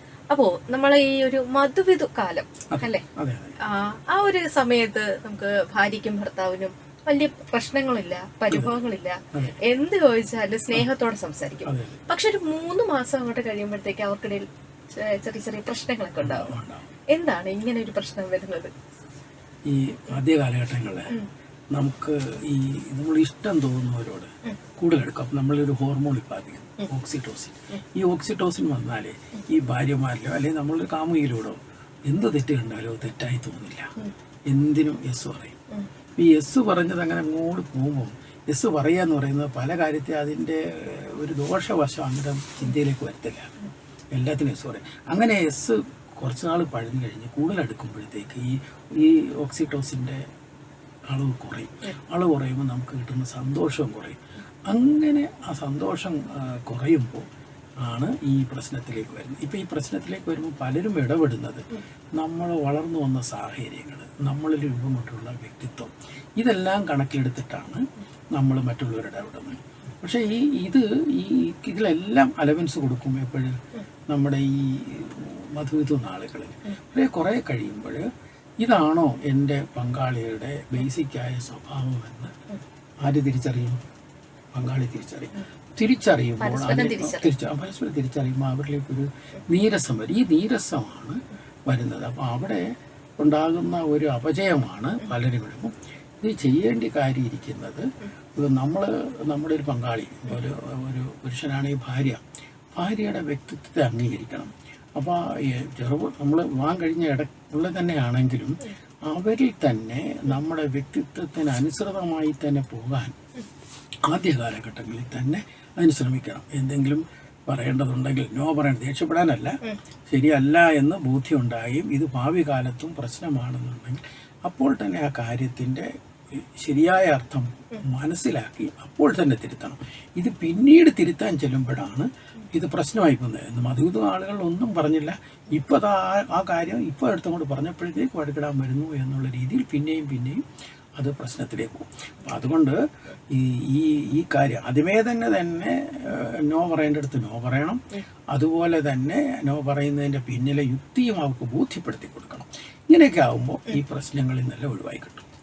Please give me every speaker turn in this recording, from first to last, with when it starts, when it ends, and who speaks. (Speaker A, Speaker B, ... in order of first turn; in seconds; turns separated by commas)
Speaker A: 0.3-3.0, Speaker B: 2.7-3.6, Speaker A: 3.6-16.5, Speaker B: 8.5-8.8, Speaker B: 11.7-12.0, Speaker B: 16.2-16.9, Speaker A: 17.1-18.7, Speaker B: 19.7-21.1, Speaker B: 21.7-33.9, Speaker B: 34.5-35.6, Speaker B: 36.2-43.5, Speaker B: 44.1-50.2, Speaker B: 51.1-57.3, Speaker B: 57.8-73.5, Speaker B: 74.1-78.0, Speaker B: 78.6-82.3, Speaker B: 83.0-83.8, Speaker B: 84.5-92.7, Speaker A: 86.4-87.3, Speaker B: 93.2-102.2, Speaker B: 102.7-113.1, Speaker B: 114.1-140.4, Speaker B: 141.0-142.8, Speaker B: 143.3-155.2